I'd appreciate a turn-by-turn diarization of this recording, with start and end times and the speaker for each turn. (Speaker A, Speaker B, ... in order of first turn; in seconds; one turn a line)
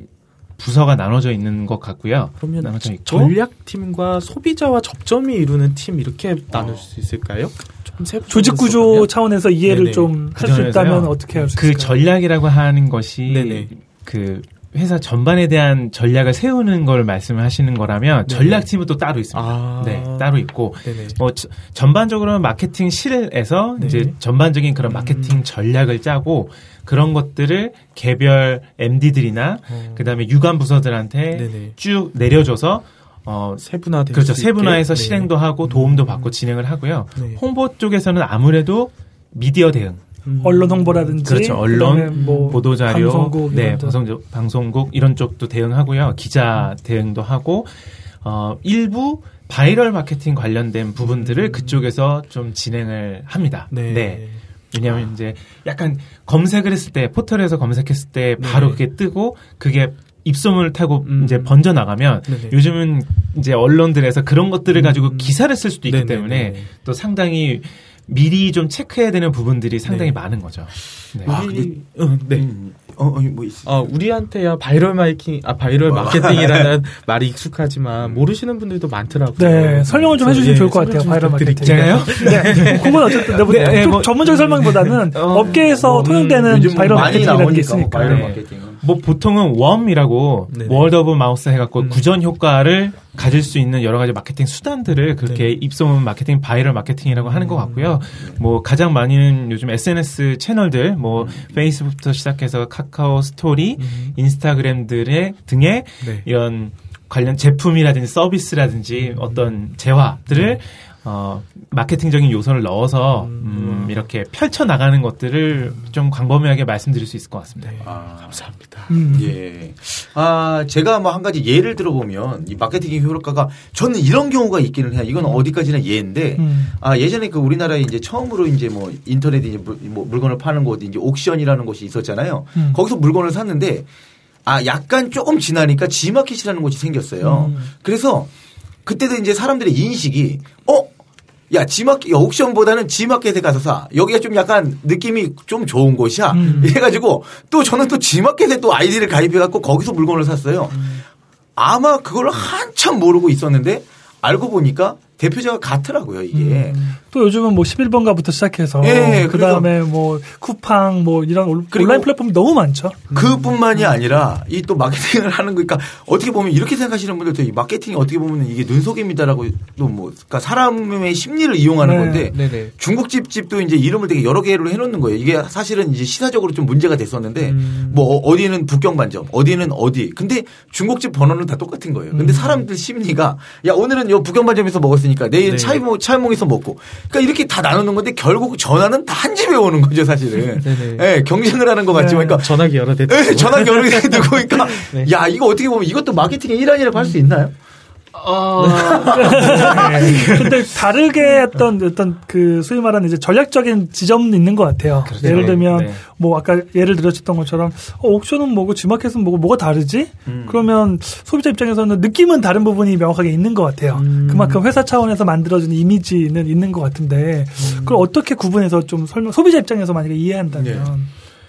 Speaker A: 0.6-3.3
Speaker B: 2.4-10.1
Speaker C: 6.5-6.8
Speaker D: 8.3-12.0
Speaker A: 10.3-40.0
Speaker B: 13.3-13.7
Speaker B: 18.2-18.6
Speaker B: 19.3-21.2
Speaker B: 23.8-24.1
Speaker B: 24.8-25.4
Speaker B: 29.7-30.2
Speaker B: 31.3-31.7
Speaker B: 33.6-36.4
Speaker B: 37.1-37.4
Speaker B: 40.2-42.6
Speaker D: 40.4-44.0
Speaker A: 41.2-71.3
Speaker B: 51.0-51.9
Speaker B: 53.7-54.4
Speaker B: 58.4-58.8
Speaker B: 61.0-61.6
Speaker B: 62.2-62.6
Speaker B: 64.7-66.7
Speaker B: 69.8-70.1
Speaker B: 71.2-72.5
Speaker C: 71.2-71.8
Speaker C: 72.3-73.7
Speaker B: 73.6-83.8
Speaker C: 75.8-76.7
Speaker C: 78.0-78.3
Speaker D: 79.4-88.3
Speaker A: 81.6-86.2
Speaker B: 84.6-84.9
Speaker C: 85.3-88.8
Speaker B: 85.8-87.3
Speaker A: 86.8-87.3
Speaker A: 88.0-117.8
Speaker B: 90.5-90.9
Speaker B: 91.8-92.0
Speaker B: 95.2-95.5
Speaker B: 97.1-98.0
Speaker C: 101.2-101.4
Speaker B: 103.8-104.2
Speaker B: 106.0-106.3
Speaker B: 108.9-109.5
Speaker B: 110.3-110.6
Speaker B: 113.2-114.1
Speaker B: 117.6-118.9
Speaker C: 117.8-118.4
Speaker D: 118.9-119.3
Speaker C: 119.1-133.9
Speaker D: 126.4-126.7
Speaker D: 132.6-132.8
Speaker C: 134.4-138.3
Speaker D: 137.2-137.7
Speaker C: 138.8-140.9
Speaker C: 141.5-150.9
Speaker D: 146.3-146.7
Speaker B: 146.4-146.8
Speaker B: 150.7-151.0
Speaker C: 151.6-156.8
Speaker D: 156.3-163.0
Speaker B: 156.7-156.9
Speaker C: 158.8-159.7
Speaker C: 161.7-162.1
Speaker B: 163.1-164.0
Speaker C: 163.1-197.5
Speaker D: 171.8-172.3
Speaker B: 172.3-172.7
Speaker B: 177.4-178.2
Speaker B: 182.1-182.6
Speaker B: 185.4-185.8
Speaker B: 190.6-191.1
Speaker D: 191.9-192.3
Speaker B: 192.1-195.1
Speaker A: 198.1-200.7
Speaker B: 198.6-199.0
Speaker C: 198.7-200.1
Speaker D: 199.1-221.1
Speaker A: 205.0-206.0
Speaker B: 205.2-205.6
Speaker C: 210.2-210.7
Speaker B: 213.9-214.6
Speaker B: 217.6-218.1
Speaker C: 220.5-220.9